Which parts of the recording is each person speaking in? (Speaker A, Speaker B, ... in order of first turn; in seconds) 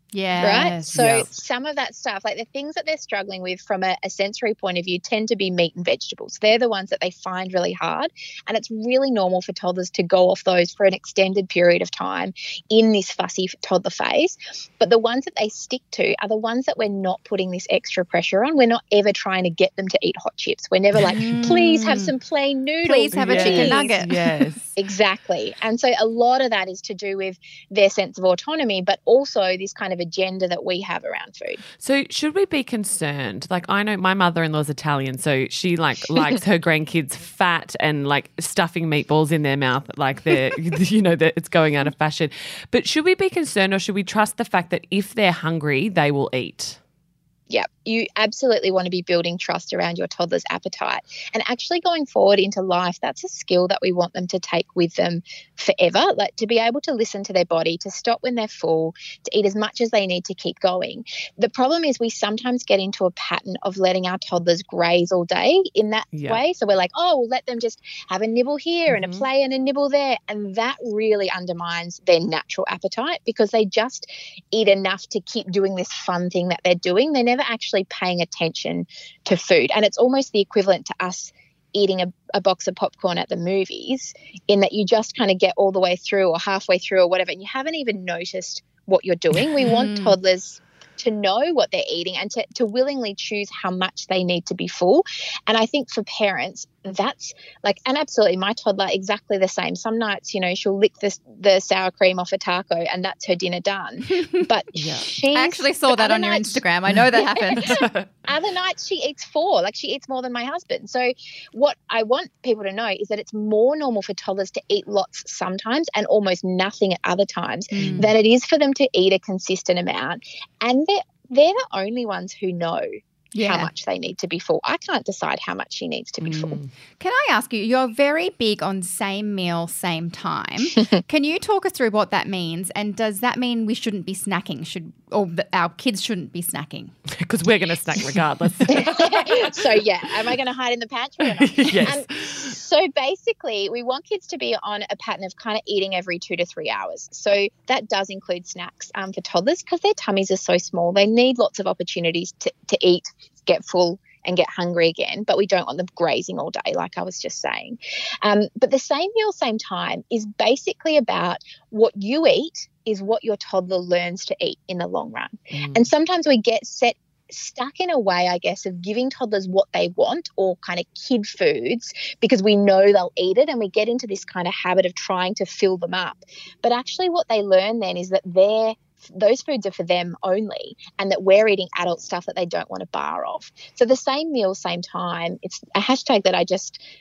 Speaker A: 0.1-1.1, 21.0-22.1, 22.8-24.3, 89.6-90.2, 105.3-107.8, 117.7-118.1, 123.3-123.7, 127.0-136.9, 138.8-139.2
Speaker B: 0.4-24.0, 24.8-31.6, 47.5-106.6, 107.1-122.9, 123.4-126.6, 138.7-186.8
Speaker C: 0.4-1.3, 23.1-24.7, 31.8-46.8, 66.1-66.4, 68.9-69.2, 104.7-105.1, 107.5-108.0, 117.8-118.1, 126.2-126.7, 137.2-139.3, 141.2-142.5, 165.5-165.9